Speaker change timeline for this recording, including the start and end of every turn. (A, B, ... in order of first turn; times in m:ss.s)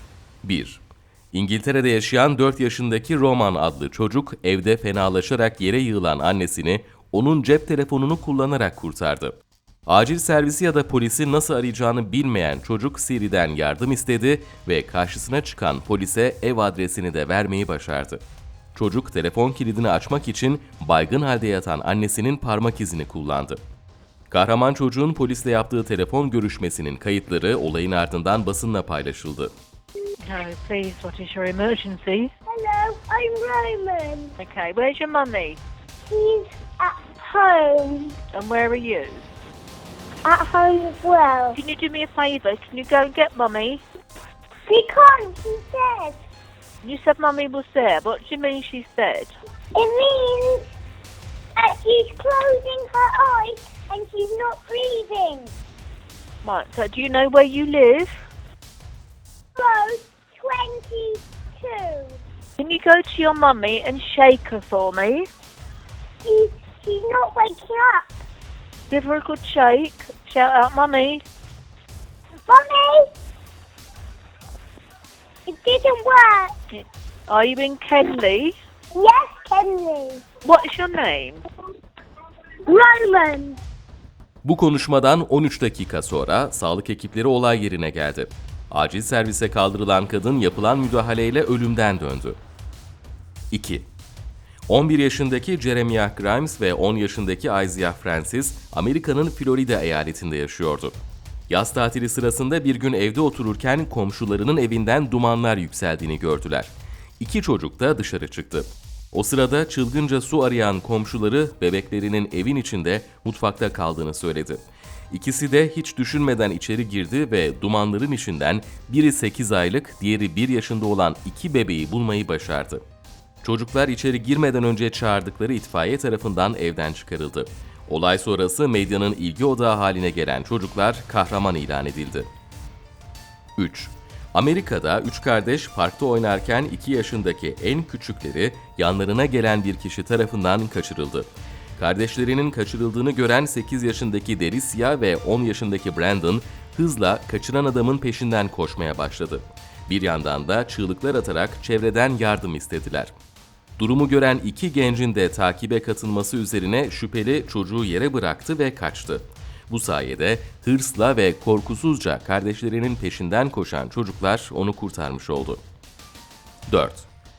0:00.4-0:18.2 A
0:18.8-0:23.6 A
0:24.3-0:29.6 A
0:30.2-0:32.3 B
0:32.5-0:34.4 C
0:34.4-0:35.6 B
0:36.1-0:38.2 C
0:38.3-0:39.3 B
0:40.2-0:41.6 C
0:41.5-0:43.8 B
0:44.7-0:46.2 C
0:46.8-0:49.3 B
0:49.8-0:50.6 C
0:51.6-0:55.5 C
0:56.4-0:58.1 B
0:59.6-1:02.2 C
1:02.6-1:05.3 B
1:06.2-1:08.1 C
1:08.9-1:11.2 B
1:12.5-1:13.1 C
1:15.5-1:16.5 C
1:16.8-1:18.6 B
1:19.0-1:20.3 C
1:20.4-1:21.4 B
1:22.7-1:23.6 C
1:24.4-1:32.4 A
1:33.5-1:33.9 A
1:34.7-2:02.8 A
2:03.4-2:12.3 A
2:13.6-2:33.1 A
2:33.8-2:45.6 A
2:46.7-2:47.1 A